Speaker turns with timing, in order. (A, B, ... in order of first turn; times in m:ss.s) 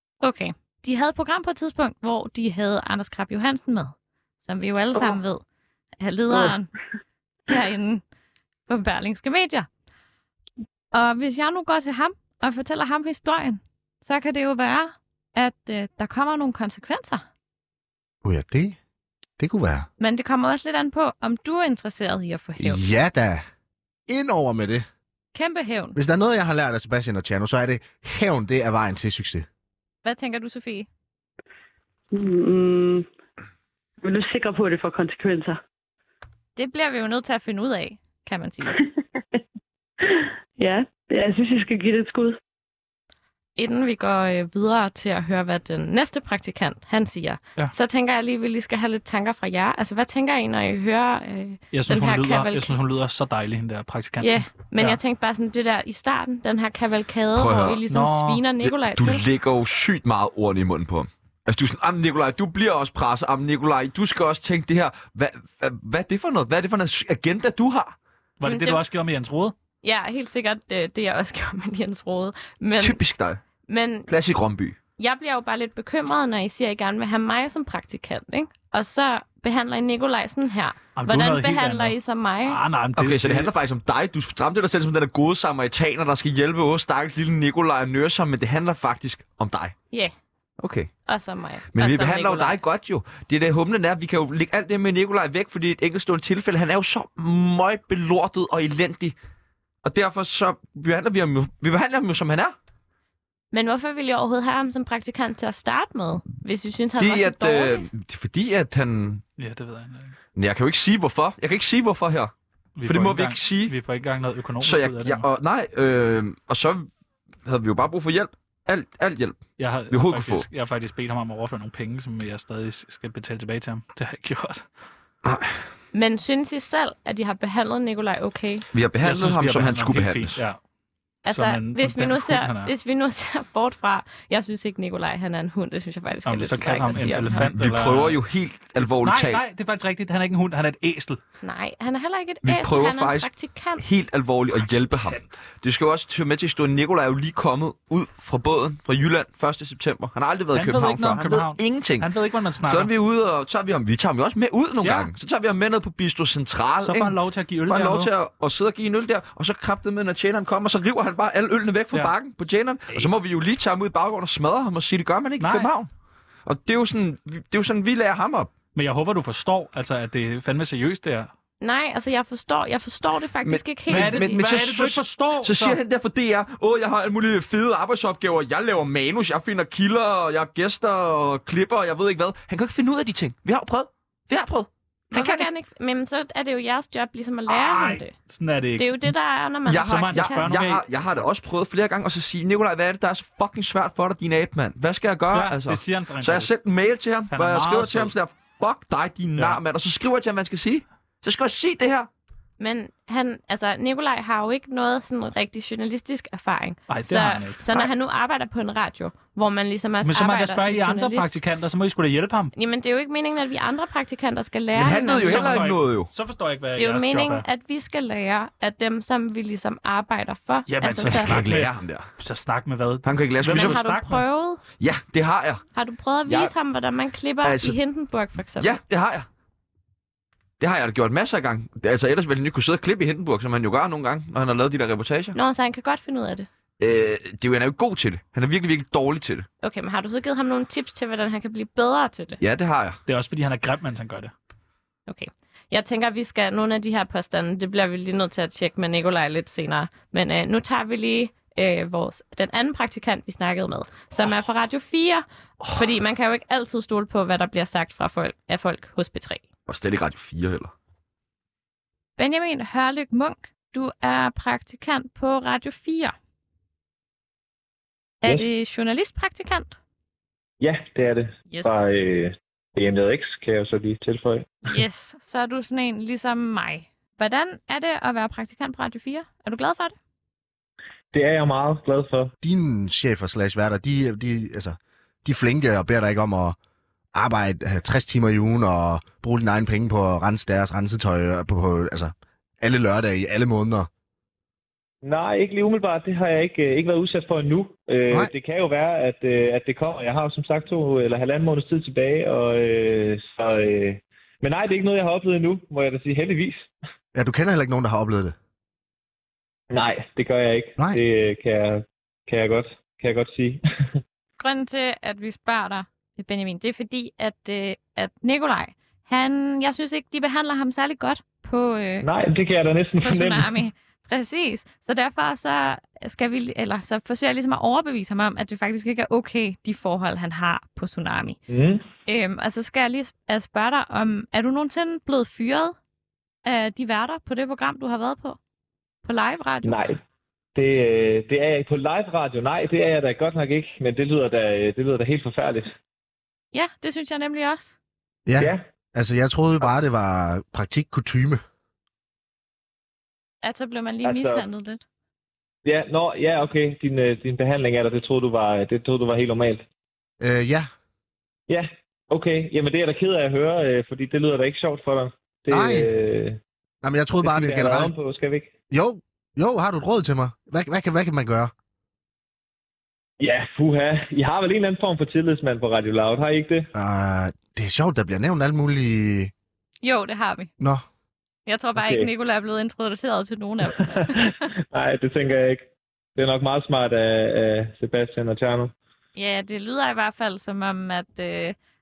0:00.2-0:05.4 A
0:06.0-0:06.7 A
0:07.5-0:08.0 A
0:08.7-0:09.7 A
0:10.9-0:17.2 A
0:18.2-0:18.8 B
0:19.4-0:19.9 B
0:20.0-0:22.8 A
0:22.6-0:23.4 B
0:24.1-0:24.9 B
0:25.3-0:26.0 A
0:26.0-0:29.5 B
0:30.0-0:30.9 A
0:32.1-0:33.1 C
0:34.0-0:35.6 C
0:36.6-0:38.8 A
0:40.0-0:42.4 C
0:43.6-0:52.8 A
0:51.7-0:55.0 D
0:54.2-0:59.2 A
0:57.4-0:57.8 E
0:57.9-0:58.4 D
0:58.6-1:08.0 E
1:08.4-1:09.6 D
1:08.4-1:08.8 A
1:09.8-1:13.0 A
1:12.8-1:13.4 E
1:13.7-1:14.1 A
1:14.1-1:14.8 E
1:15.0-1:22.6 A
1:21.0-1:23.5 D
1:23.0-1:29.8 E
1:30.6-1:30.9 E
1:31.1-1:32.6 A
1:31.7-1:39.2 E
1:39.8-1:42.6 E
1:43.5-1:47.9 A
1:47.0-1:49.2 E
1:49.4-1:50.2 D
1:50.4-1:52.3 E
1:52.8-1:55.3 D
1:52.8-1:53.7 E
1:54.6-1:56.9 E
1:57.4-2:00.5 E
1:59.6-2:04.7 D
2:05.2-2:05.6 E
2:05.9-2:08.6 A
2:08.7-2:10.4 E
2:09.0-2:10.6 D
2:11.2-2:17.5 A
2:11.3-2:12.7 D
2:16.2-2:18.2 D
2:17.2-2:19.4 E
2:18.8-2:21.2 D
2:21.4-2:23.8 A
2:22.4-2:32.1 E
2:24.9-2:25.2 D
2:30.5-2:32.9 D
2:32.6-2:45.9 E
2:34.8-2:35.1 D
2:36.8-2:38.1 D
2:45.4-2:45.7 D
2:46.5-2:48.5 E
2:48.8-2:51.3 D
2:51.6-2:54.4 A
2:53.4-3:05.5 E
2:53.9-2:55.8 D
3:05.1-3:08.1 A
3:07.5-3:09.0 D
3:08.8-3:10.6 A
3:09.7-3:22.1 E
3:09.8-3:10.8 D
3:15.3-3:16.5 D
3:17.3-3:18.1 D
3:22.6-3:31.4 A
3:26.9-3:27.9 D
3:30.0-3:32.5 D
3:32.6-3:35.7 A
3:34.8-3:36.1 E
3:34.9-3:37.5 D
3:36.8-3:41.4 A
3:40.7-3:44.2 D
3:41.0-3:42.1 E
3:43.0-3:43.8 E
3:43.5-3:44.6 A
3:44.8-3:45.6 E
3:45.7-3:48.8 A
3:46.3-3:46.5 E
3:47.4-3:47.8 E
3:48.6-3:49.3 E
3:50.6-3:55.4 E
3:55.4-3:56.5 A
3:56.8-3:59.5 E
3:59.6-4:02.4 A
4:02.4-4:03.0 E
4:03.1-4:04.3 D
4:05.1-4:19.4 A
4:19.7-4:20.7 E
4:22.2-4:26.1 A
4:28.2-4:29.8 A
4:30.6-4:34.6 F
4:31.5-4:31.9 A
4:34.7-4:40.0 A
4:41.1-4:42.3 F
4:42.4-4:46.6 B
4:47.1-4:53.9 B
4:55.0-5:06.7 F
5:07.1-5:08.4 B
5:09.7-5:14.0 F
5:14.4-5:22.1 A
5:22.0-5:23.5 F
5:23.0-5:31.4 A
5:31.5-5:31.8 F
5:32.1-5:35.8 A
5:36.4-5:38.4 A
5:39.0-5:39.8 A
5:39.6-5:40.0 F
5:40.6-5:45.7 F
5:46.5-5:47.8 A
5:48.3-5:51.4 B
5:48.4-5:48.6 F
5:53.4-5:54.8 A
5:54.0-5:54.4 F
5:55.6-5:59.6 F
6:00.2-6:00.7 B
6:01.5-6:06.4 F
6:05.5-6:05.9 B
6:06.8-6:07.9 B
6:07.2-6:08.5 F
6:08.7-6:11.5 B
6:13.2-6:16.7 F
6:16.7-6:19.3 B
6:19.8-6:20.5 A
6:21.5-6:24.2 A
6:21.8-6:22.1 F
6:23.8-6:28.7 F
6:29.2-6:31.6 A